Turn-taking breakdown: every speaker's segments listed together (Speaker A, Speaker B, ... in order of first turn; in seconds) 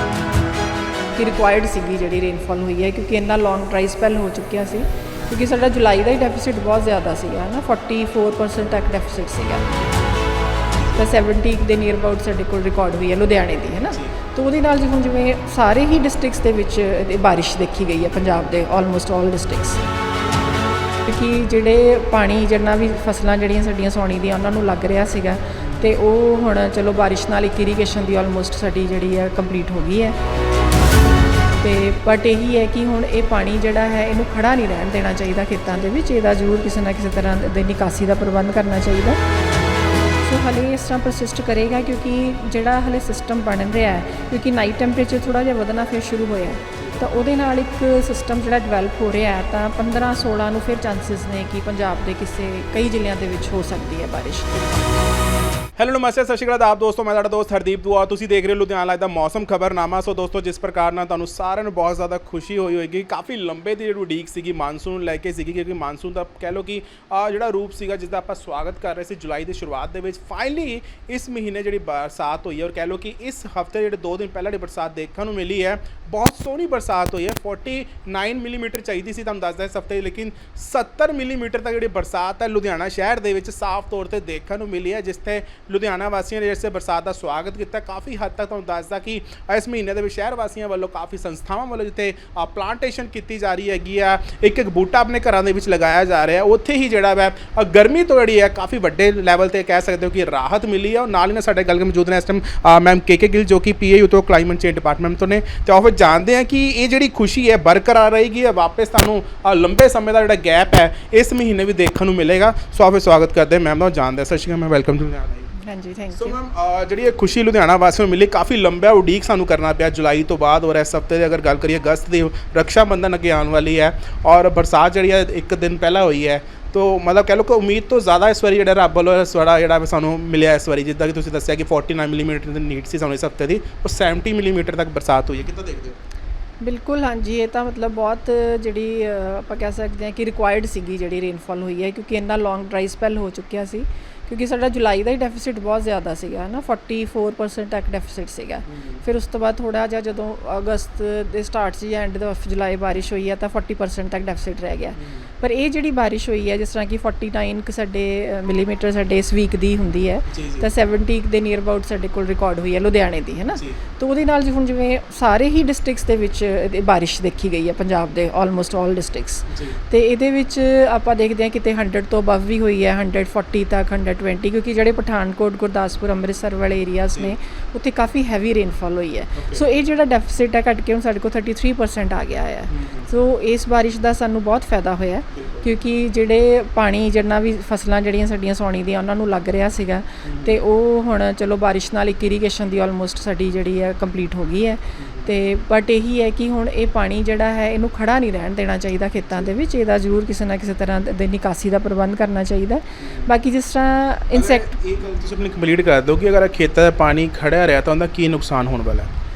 Speaker A: 1.1-9.7, 11.0-19.8, 21.1-30.2, 31.6-39.2, 40.2-54.7, 115.6-116.4, 136.6-204.7
Speaker B: 10.8-11.1, 25.6-25.9, 46.8-47.0, 55.8-115.5, 116.1-136.0, 148.7-149.0, 155.0-155.3, 160.3-160.7, 169.5-169.8, 179.3-179.7, 182.7-183.1, 185.3-185.7, 190.2-190.6, 195.0-195.3, 203.0-203.3, 204.3-209.1